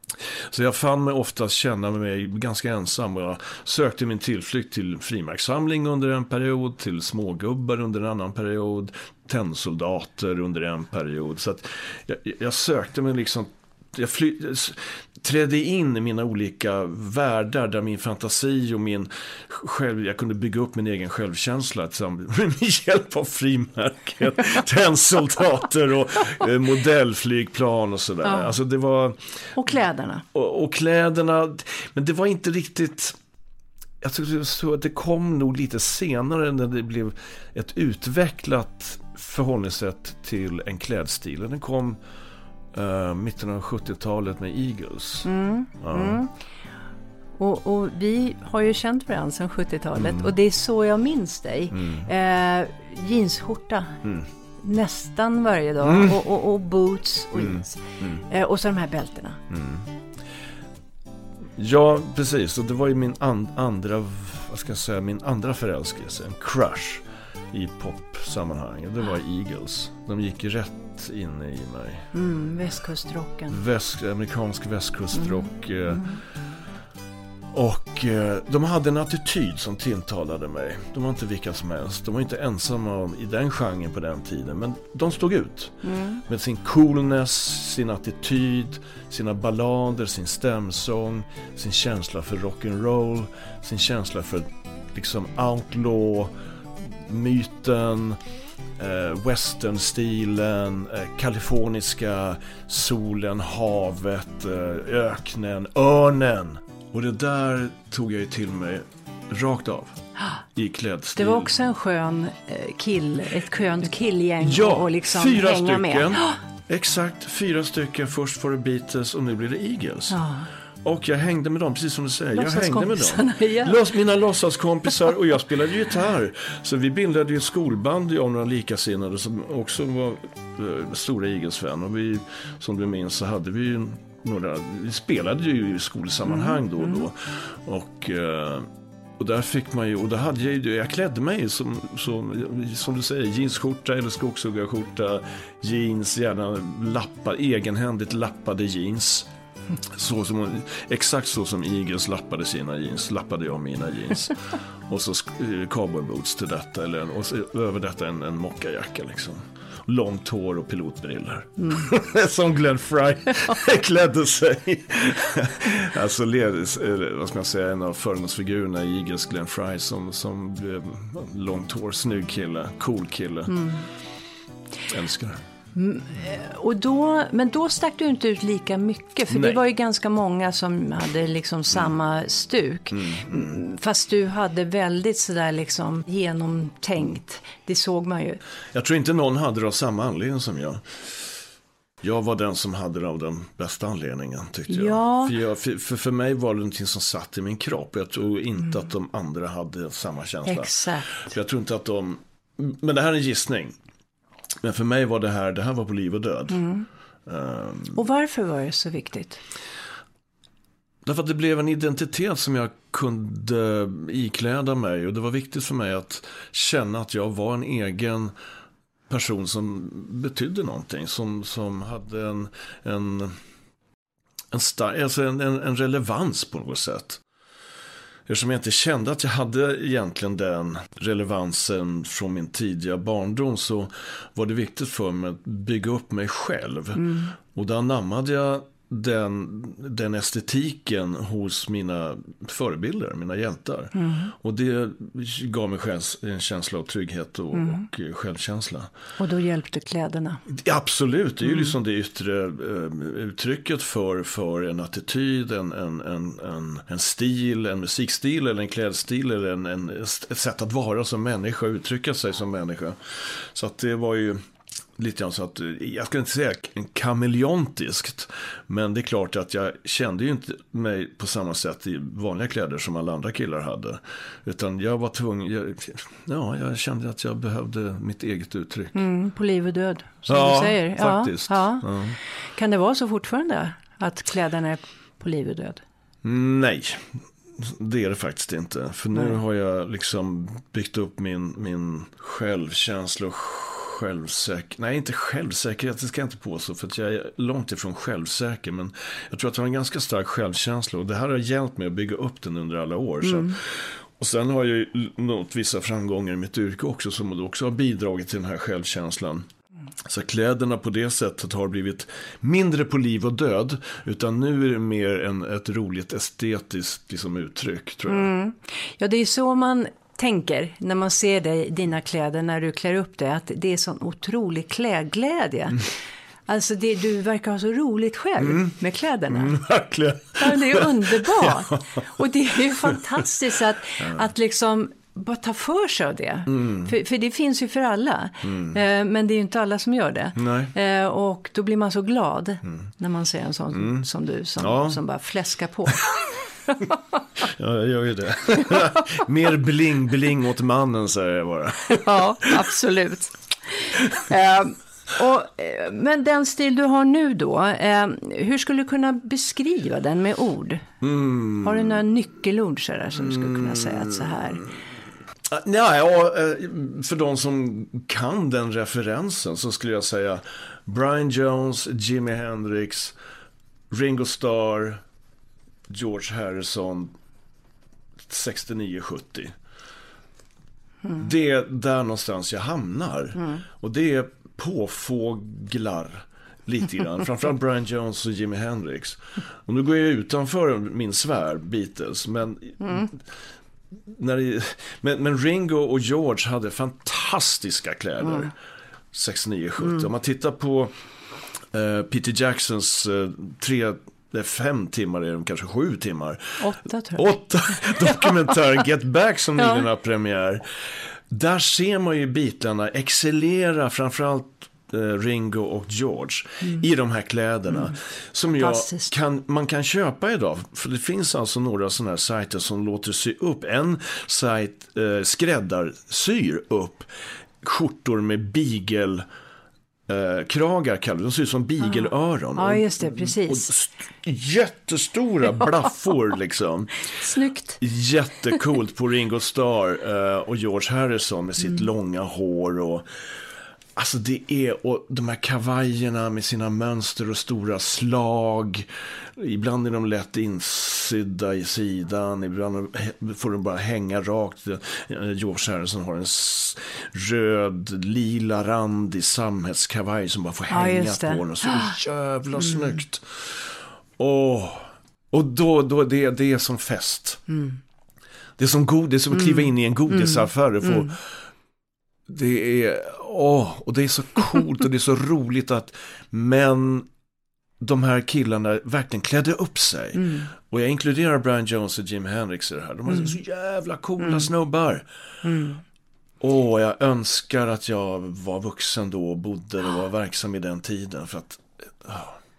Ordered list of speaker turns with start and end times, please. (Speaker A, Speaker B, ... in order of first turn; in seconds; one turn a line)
Speaker A: 0.3-29.7
Speaker B: 28.2-28.5
Speaker B: 29.6-30.2
Speaker A: 30.3-33.2
Speaker A: 34.0-42.0
Speaker A: 42.7-46.2
Speaker B: 45.2-46.3
Speaker B: 47.4-54.0
Speaker A: 50.0-50.3
Speaker A: 51.7-52.1
Speaker B: 54.6-59.4
Speaker A: 55.8-56.2
Speaker A: 57.4-58.2
Speaker A: 59.5-59.9
Speaker A: 61.5-72.1
Speaker B: 72.1-73.6
Speaker A: 73.5-76.2
Speaker B: 75.9-76.2
Speaker A: 77.5-98.2
Speaker B: 85.8-86.2
Speaker A: 98.8-110.0
Speaker A: 110.5-111.5
Speaker B: 111.2-116.4
Speaker A: 114.4-120.2
Speaker B: 120.1-120.5
Speaker A: 120.8-138.7
Speaker B: 122.3-123.8
Speaker B: 136.3-136.6
Speaker A: 139.2-149.3
Speaker A: 149.9-173.8
Speaker B: 173.5-173.9
Speaker A: 174.8-175.4
Speaker B: 175.7-188.4
Speaker A: 179.3-179.6
Speaker A: 182.9-183.6
Speaker A: 188.7-191.2
Speaker A: 192.0-203.7
Speaker B: 194.7-195.3
Speaker B: 200.4-201.2
Speaker A: 204.6-206.7
Speaker B: 206.5-206.8
Speaker A: 207.2-208.0
Speaker B: 207.9-209.4
Speaker A: 211.0-218.3
Speaker A: 219.1-223.4
Speaker A: 224.5-227.2
Speaker A: 228.3-248.9
Speaker B: 236.9-237.3
Speaker B: 243.9-244.3
Speaker B: 247.5-247.8
Speaker B: 249.2-250.4
Speaker A: 250.5-264.4
Speaker B: 251.4-251.7
Speaker A: 265.0-278.9
Speaker B: 278.9-281.9
Speaker A: 280.3-282.2
Speaker B: 282.5-285.8
Speaker A: 286.2-309.4
Speaker B: 303.2-303.5
Speaker A: 310.1-318.3
Speaker B: 318.1-325.9
Speaker B: 326.4-329.6
Speaker A: 328.4-328.8
Speaker A: 329.3-332.1
Speaker B: 330.4-347.2
Speaker A: 336.5-336.9
Speaker A: 338.4-338.8
Speaker A: 340.4-340.7
Speaker A: 343.7-344.0
Speaker A: 344.6-345.0
Speaker A: 347.4-352.6
Speaker B: 348.7-349.2
Speaker B: 351.9-360.8
Speaker A: 361.0-362.0
Speaker B: 361.6-364.6
Speaker A: 363.2-364.7
Speaker A: 365.5-373.1
Speaker A: 373.9-375.0
Speaker A: 375.9-377.1
Speaker A: 378.3-379.5
Speaker A: 381.1-393.2
Speaker A: 394.1-398.5
Speaker B: 398.2-398.5
Speaker A: 399.1-400.9
Speaker A: 401.7-427.1
Speaker B: 406.6-408.5
Speaker B: 418.6-419.1
Speaker A: 427.6-429.2
Speaker A: 430.1-437.1
Speaker B: 431.8-433.7
Speaker B: 437.1-437.8
Speaker A: 437.8-443.1
Speaker A: 443.9-467.5
Speaker B: 460.7-462.0
Speaker B: 462.6-463.0
Speaker B: 467.5-467.8
Speaker A: 468.6-471.4
Speaker B: 469.3-471.1
Speaker A: 472.3-477.1
Speaker A: 477.8-485.1
Speaker B: 480.1-480.5
Speaker B: 483.1-483.3
Speaker B: 484.2-484.5
Speaker B: 485.4-485.8
Speaker A: 486.4-492.4